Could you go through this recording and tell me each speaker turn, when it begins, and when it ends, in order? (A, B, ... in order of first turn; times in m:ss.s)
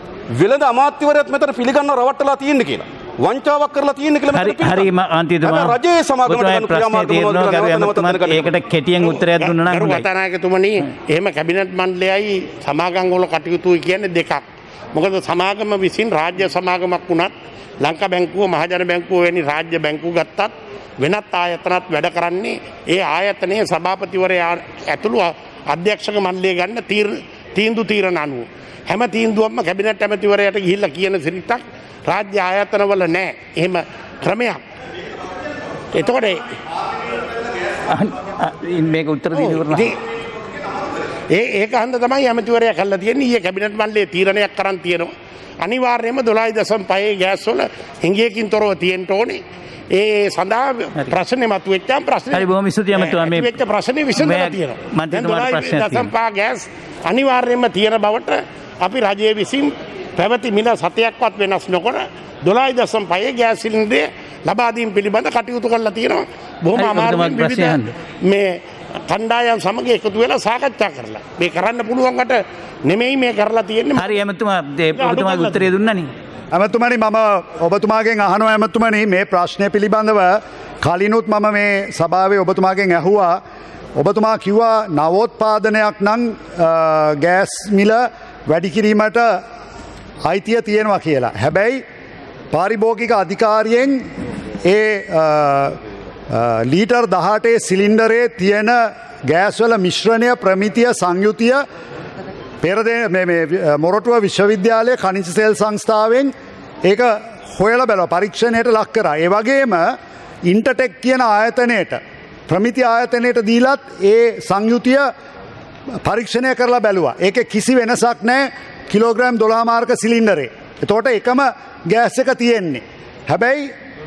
0:00.3-0:04.9 A
0:04.3-0:10.1 B
0:05.4-0:08.5 A
0:09.0-0:34.6 C
0:35.9-0:36.4 C
0:37.9-0:40.0 B
0:39.3-0:40.0 C
0:41.3-1:14.2 C
0:52.3-0:53.5 B
0:54.2-0:56.1 B
1:06.8-1:07.9 B
1:14.0-1:16.1 B
1:15.0-1:15.7 C
1:16.5-1:23.4 D
1:24.0-1:29.4 D
1:30.2-1:31.8 D
1:32.5-1:34.0 D
1:34.6-1:35.8 D
1:36.3-1:41.6 D
1:42.6-1:46.3 D
1:46.8-1:55.1 D
1:56.0-2:03.7 D